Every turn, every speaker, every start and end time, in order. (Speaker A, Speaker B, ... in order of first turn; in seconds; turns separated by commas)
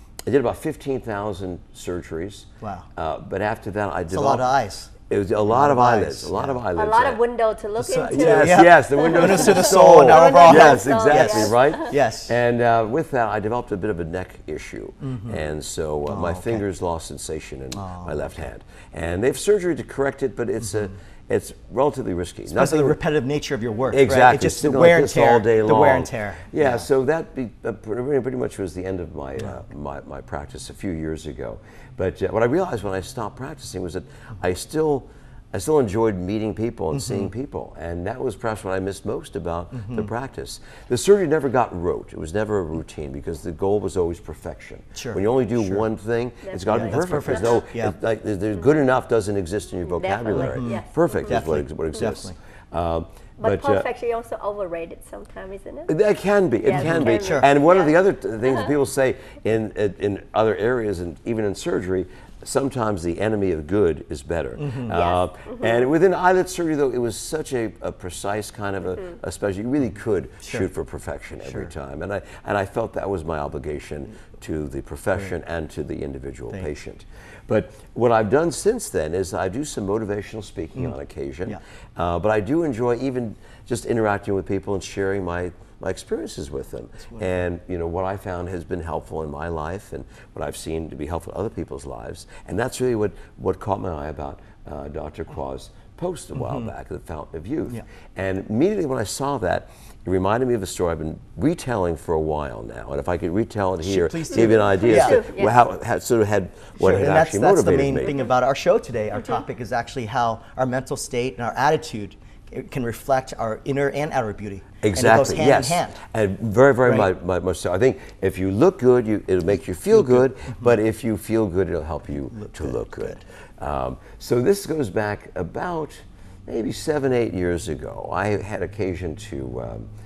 Speaker A: 0.2-7.2, Speaker B: 2.6-2.9, Speaker B: 4.1-4.9, Speaker B: 5.5-6.6, Speaker C: 6.7-11.9, Speaker B: 7.8-12.3, Speaker A: 7.9-23.0, Speaker B: 15.0-15.4, Speaker B: 16.1-16.6, Speaker B: 17.7-18.2, Speaker B: 22.5-26.9, Speaker A: 23.9-53.9, Speaker B: 36.9-37.3, Speaker B: 39.8-40.1, Speaker B: 44.9-45.8, Speaker C: 46.4-47.6, Speaker B: 46.7-47.9, Speaker C: 50.0-51.5, Speaker B: 50.3-52.4, Speaker C: 53.4-55.9, Speaker A: 55.9-108.1, Speaker C: 56.6-58.7, Speaker B: 56.7-57.5, Speaker B: 64.5-65.0, Speaker C: 64.9-65.8, Speaker B: 71.4-71.7, Speaker B: 103.8-105.2, Speaker C: 104.3-105.6, Speaker B: 106.8-116.0, Speaker A: 114.8-129.9, Speaker B: 122.3-123.2